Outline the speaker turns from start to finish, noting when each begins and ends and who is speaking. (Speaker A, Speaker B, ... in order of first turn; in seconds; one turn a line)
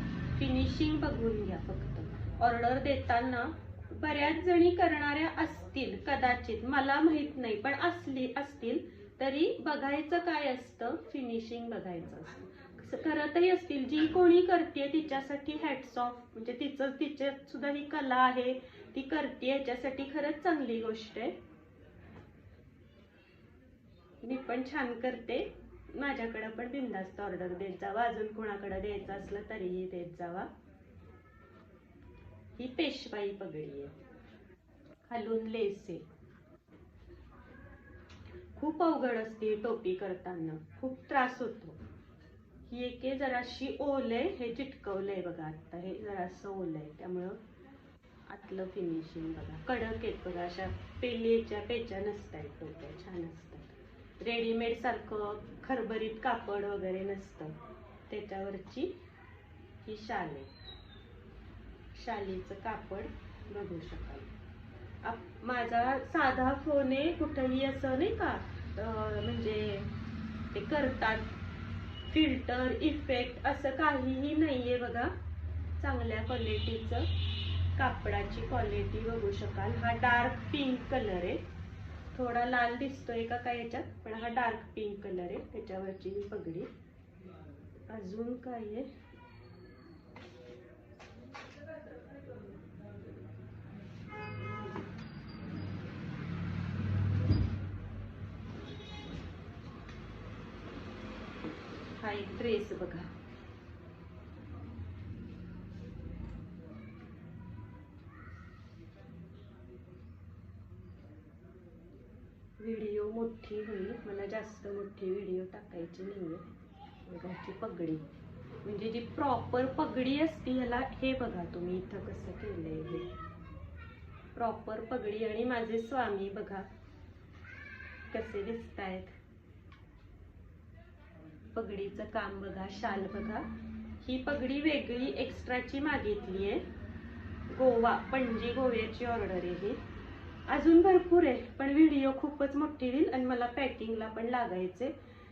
Speaker A: 0.3-21.4
Speaker A: 24.2-30.5
Speaker A: 32.6-34.0
Speaker A: 35.1-36.0
Speaker A: 38.5-41.8
Speaker A: 42.7-47.4
Speaker A: 48.3-57.6
Speaker A: 58.1-58.9
Speaker A: 59.8-60.5
Speaker A: 61.9-64.3
Speaker A: 65.0-69.9
Speaker A: 70.5-71.3
Speaker A: 72.1-75.1
Speaker A: 75.8-77.1
Speaker A: 77.8-81.4
Speaker A: 82.1-86.7
Speaker A: 87.9-88.9
Speaker A: 102.0-103.1
Speaker A: 112.6-116.5
Speaker A: 117.0-118.1
Speaker A: 118.7-123.1
Speaker A: 124.3-126.7
Speaker A: 128.1-129.2
Speaker A: 131.5-133.5
Speaker A: 134.0-136.6
Speaker A: 137.5-139.8
Speaker A: 140.5-144.9